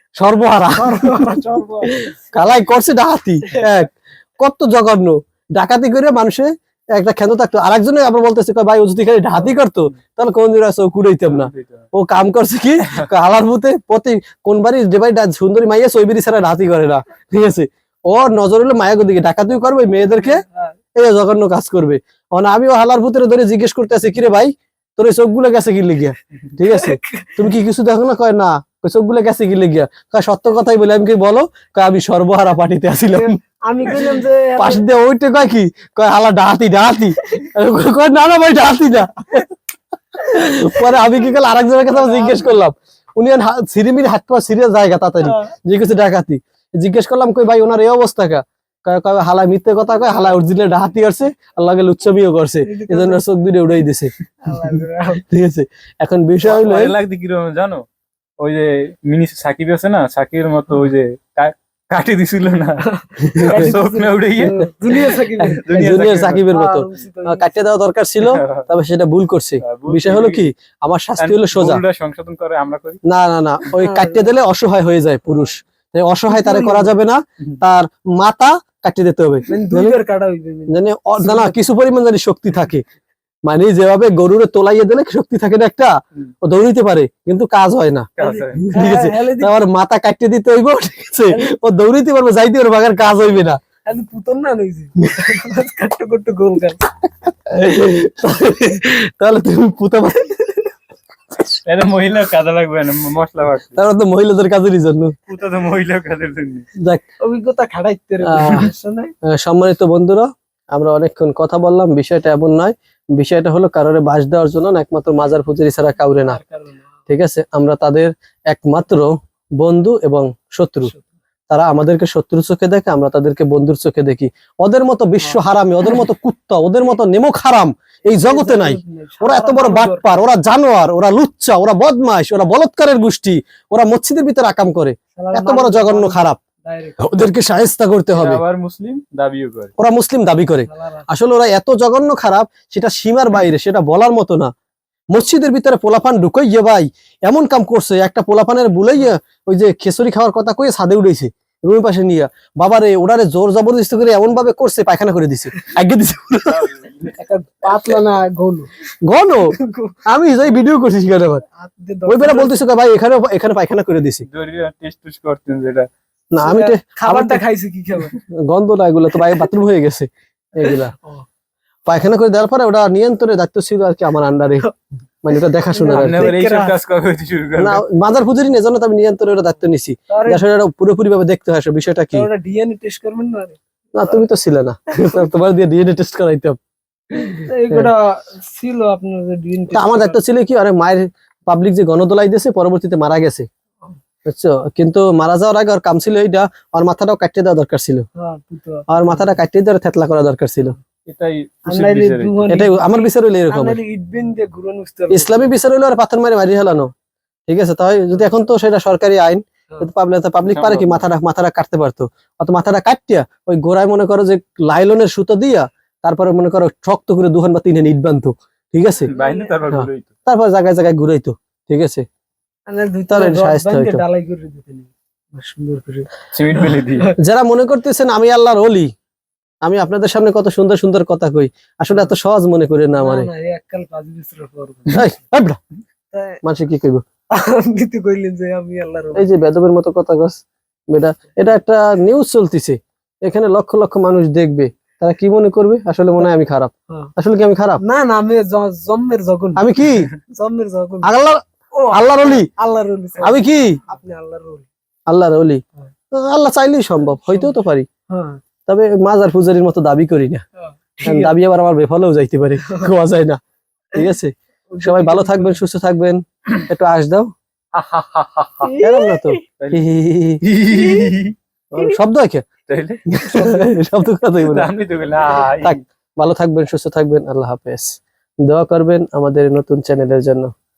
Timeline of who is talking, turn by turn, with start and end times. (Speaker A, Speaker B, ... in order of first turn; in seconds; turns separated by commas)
Speaker A: 0.2-1.4, Speaker B: 0.8-2.1, Speaker A: 2.3-20.4, Speaker C: 11.3-11.9, Speaker C: 12.8-13.1, Speaker B: 20.1-20.8, Speaker A: 21.0-33.3, Speaker B: 26.6-27.5, Speaker B: 33.1-34.9, Speaker A: 33.9-39.5, Speaker A: 40.2-54.1, Speaker B: 40.6-40.9, Speaker B: 41.9-42.5, Speaker B: 45.2-45.5, Speaker B: 52.6-53.2, Speaker B: 54.4-55.2, Speaker A: 54.6-57.0, Speaker C: 56.4-57.8, Speaker C: 58.4-66.5, Speaker B: 62.8-67.5, Speaker A: 63.2-63.7, Speaker A: 65.4-71.8, Speaker C: 68.2-68.7, Speaker C: 69.6-70.5, Speaker C: 71.2-73.0, Speaker A: 73.0-80.0, Speaker B: 73.7-74.3, Speaker B: 76.3-77.0, Speaker B: 79.5-81.6, Speaker A: 80.7-82.8, Speaker A: 83.5-88.1, Speaker C: 88.2-88.7, Speaker B: 88.2-89.6, Speaker A: 88.6-93.6, Speaker B: 91.3-91.5, Speaker B: 93.8-96.9, Speaker A: 97.5-100.5, Speaker C: 101.7-103.8, Speaker A: 103.8-105.2, Speaker C: 105.3-106.7, Speaker A: 106.8-107.0, Speaker B: 107.2-109.1, Speaker A: 108.2-108.7, Speaker A: 109.2-116.4, Speaker B: 116.1-116.9, Speaker A: 117.1-120.9, Speaker A: 121.5-136.4, Speaker B: 128.1-130.3, Speaker B: 135.2-137.0, Speaker A: 137.0-138.4, Speaker C: 138.1-139.7, Speaker A: 139.8-144.5, Speaker B: 140.7-141.1, Speaker A: 145.1-156.7, Speaker C: 156.5-157.2, Speaker B: 157.2-158.8, Speaker A: 159.0-159.5, Speaker B: 159.5-160.2, Speaker A: 160.1-161.4, Speaker B: 161.5-162.7, Speaker A: 162.1-164.3, Speaker C: 164.3-165.9, Speaker A: 166.3-167.4, Speaker B: 166.4-168.2, Speaker A: 168.0-170.9, Speaker B: 170.6-171.2, Speaker A: 171.9-174.7, Speaker A: 175.2-176.3, Speaker B: 175.7-176.8, Speaker C: 175.9-177.8, Speaker A: 177.6-182.3, Speaker B: 180.1-180.4, Speaker B: 182.1-183.6, Speaker A: 183.9-186.6, Speaker B: 187.2-190.2, Speaker A: 187.2-187.9, Speaker A: 189.7-193.5, Speaker A: 194.2-198.1, Speaker B: 198.2-199.3, Speaker A: 198.9-200.8, Speaker C: 201.1-202.5, Speaker B: 201.7-205.5, Speaker A: 202.5-203.8, Speaker A: 205.1-206.9, Speaker A: 207.5-219.1, Speaker C: 210.4-211.1, Speaker C: 219.1-220.1, Speaker B: 219.1-219.5, Speaker A: 219.7-222.0, Speaker B: 222.7-227.2, Speaker A: 223.1-224.0, Speaker C: 226.3-227.1, Speaker A: 227.2-228.9, Speaker A: 229.6-233.3, Speaker B: 233.0-235.1, Speaker A: 234.9-235.6, Speaker B: 236.1-236.4, Speaker A: 236.4-237.0, Speaker B: 237.3-239.3, Speaker A: 239.2-240.4, Speaker A: 240.9-247.8, Speaker B: 247.8-251.1, Speaker A: 249.6-250.1, Speaker A: 251.0-252.5, Speaker B: 251.7-254.7, Speaker A: 253.2-253.8, Speaker A: 255.1-257.9, Speaker B: 257.3-257.5, Speaker B: 258.1-258.4, Speaker A: 258.7-260.4, Speaker B: 260.6-261.4, Speaker A: 261.0-263.4, Speaker B: 262.6-262.9, Speaker A: 263.9-267.3, Speaker B: 264.7-265.6, Speaker C: 267.7-268.7, Speaker B: 268.6-269.4, Speaker A: 268.8-270.4, Speaker C: 270.4-271.4, Speaker B: 270.7-271.1, Speaker A: 271.7-272.5, Speaker C: 272.7-273.7, Speaker A: 273.1-274.7, Speaker C: 274.4-275.8, Speaker A: 275.6-280.5